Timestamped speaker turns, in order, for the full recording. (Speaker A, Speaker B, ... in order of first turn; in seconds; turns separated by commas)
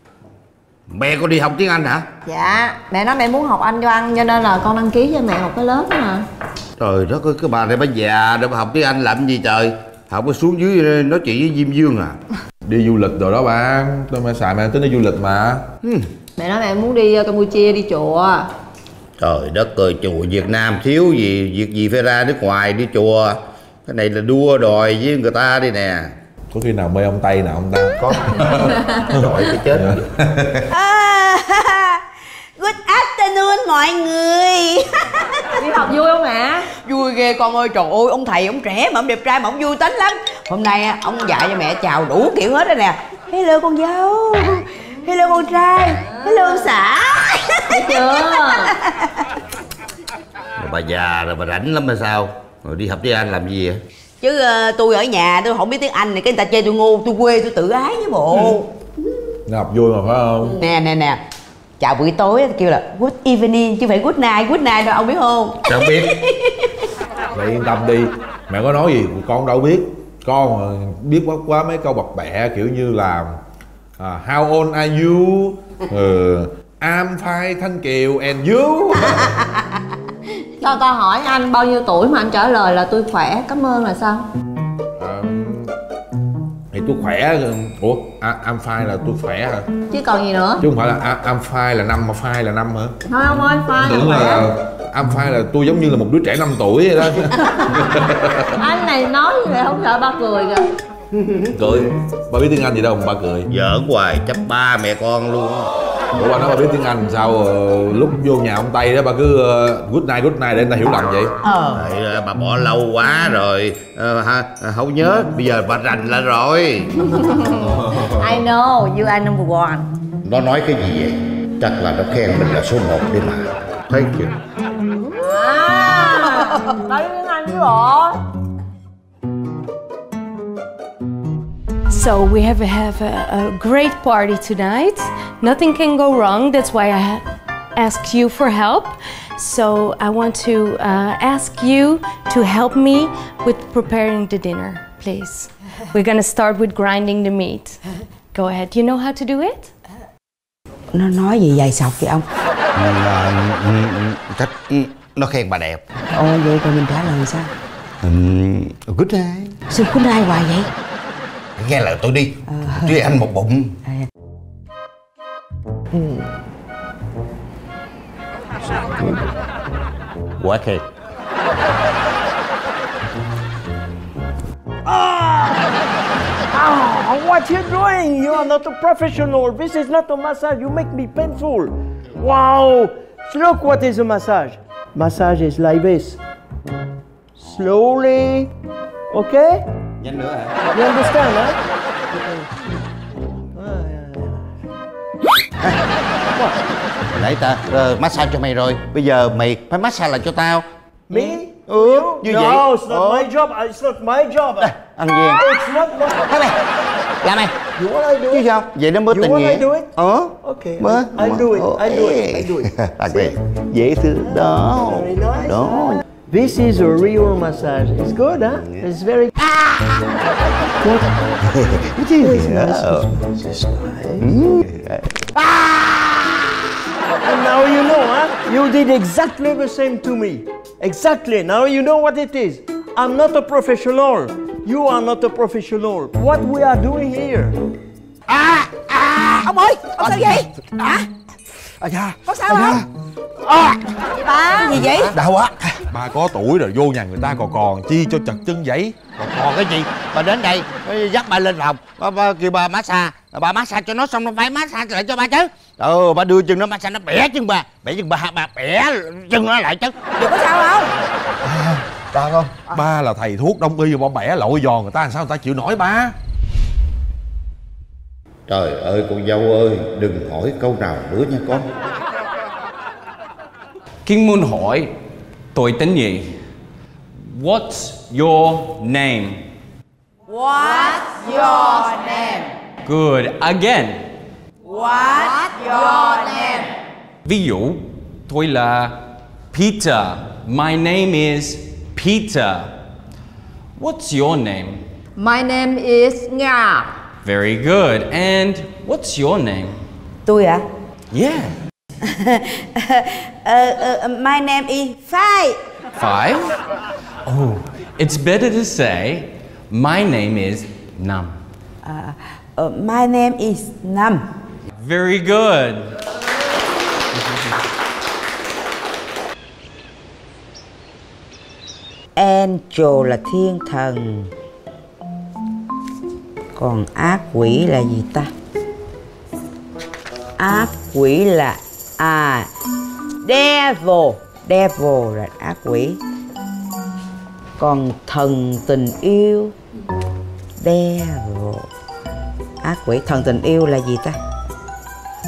Speaker A: 0.9-2.0, Speaker B: 2.3-6.2, Speaker A: 6.8-12.2, Speaker C: 12.7-15.6, Speaker B: 16.4-18.5, Speaker A: 19.2-26.1, Speaker C: 26.5-30.6, Speaker A: 28.0-28.5, Speaker B: 28.6-29.0, Speaker A: 29.1-29.9, Speaker D: 30.7-32.0, Speaker D: 32.6-34.8, Speaker B: 35.6-36.7, Speaker D: 36.7-49.0, Speaker B: 47.7-48.7, Speaker A: 50.6-53.8, Speaker D: 54.2-58.7, Speaker C: 59.5-60.6, Speaker D: 60.4-61.2, Speaker D: 61.8-65.6, Speaker A: 65.7-66.0, Speaker C: 67.3-73.3, Speaker C: 74.0-79.3, Speaker B: 80.6-84.2, Speaker C: 85.0-85.7, Speaker C: 86.7-89.7, Speaker B: 89.9-90.7, Speaker C: 90.6-93.0, Speaker B: 93.1-94.4, Speaker C: 93.8-98.6, Speaker B: 98.6-100.6, Speaker C: 101.5-103.5, Speaker A: 103.5-105.7, Speaker C: 106.2-111.3, Speaker D: 111.5-111.8, Speaker A: 111.7-117.1, Speaker B: 117.1-119.9, Speaker A: 120.2-124.3, Speaker B: 125.0-128.2, Speaker E: 131.9-147.8, Speaker E: 148.3-149.7, Speaker D: 150.9-152.3, Speaker A: 152.8-155.8, Speaker D: 156.1-157.5, Speaker A: 158.0-159.6, Speaker D: 159.7-160.7, Speaker A: 161.6-163.8, Speaker D: 162.5-163.0, Speaker D: 165.9-166.2, Speaker A: 168.6-169.3, Speaker A: 170.4-170.8, Speaker F: 174.9-175.8, Speaker F: 176.5-186.2, Speaker F: 187.4-188.5, Speaker F: 189.1-189.6, Speaker A: 190.0-190.6, Speaker F: 190.7-191.6, Speaker F: 192.1-192.5, Speaker F: 193.6-194.4, Speaker A: 197.1-203.3, Speaker F: 201.1-204.7, Speaker A: 204.6-205.6, Speaker F: 205.4-206.1, Speaker A: 206.3-206.6, Speaker A: 207.2-207.6, Speaker F: 207.8-208.4, Speaker A: 208.3-216.0, Speaker F: 209.1-209.9, Speaker F: 210.4-213.3, Speaker F: 214.3-219.3, Speaker A: 219.4-220.0, Speaker F: 220.8-221.1, Speaker A: 221.4-223.1, Speaker F: 222.2-222.9, Speaker A: 224.2-226.2, Speaker F: 227.2-237.6, Speaker A: 238.3-241.0, Speaker D: 239.8-241.0, Speaker A: 241.8-242.9, Speaker D: 242.3-242.8, Speaker A: 243.4-243.9, Speaker D: 244.2-245.1, Speaker A: 244.7-245.9, Speaker C: 245.9-249.0, Speaker A: 249.1-260.0, Speaker D: 260.2-260.9, Speaker A: 261.4-262.7, Speaker C: 262.7-266.1, Speaker A: 268.5-271.7, Speaker G: 274.1-274.9, Speaker G: 275.5-276.3, Speaker G: 277.2-279.4, Speaker D: 280.3-282.5, Speaker G: 282.9-284.1, Speaker D: 284.7-286.7, Speaker G: 287.2-292.7, Speaker G: 293.8-294.8, Speaker B: 295.2-296.9, Speaker G: 297.2-299.8, Speaker D: 300.3-300.7, Speaker G: 301.1-301.6, Speaker D: 302.3-305.6, Speaker G: 306.0-306.6, Speaker G: 307.3-311.4, Speaker D: 311.8-314.2, Speaker G: 314.8-315.9, Speaker D: 322.2-324.3, Speaker D: 326.6-328.3, Speaker D: 330.4-332.5, Speaker D: 333.2-336.0, Speaker D: 337.6-339.6, Speaker D: 340.6-341.7, Speaker D: 342.6-344.2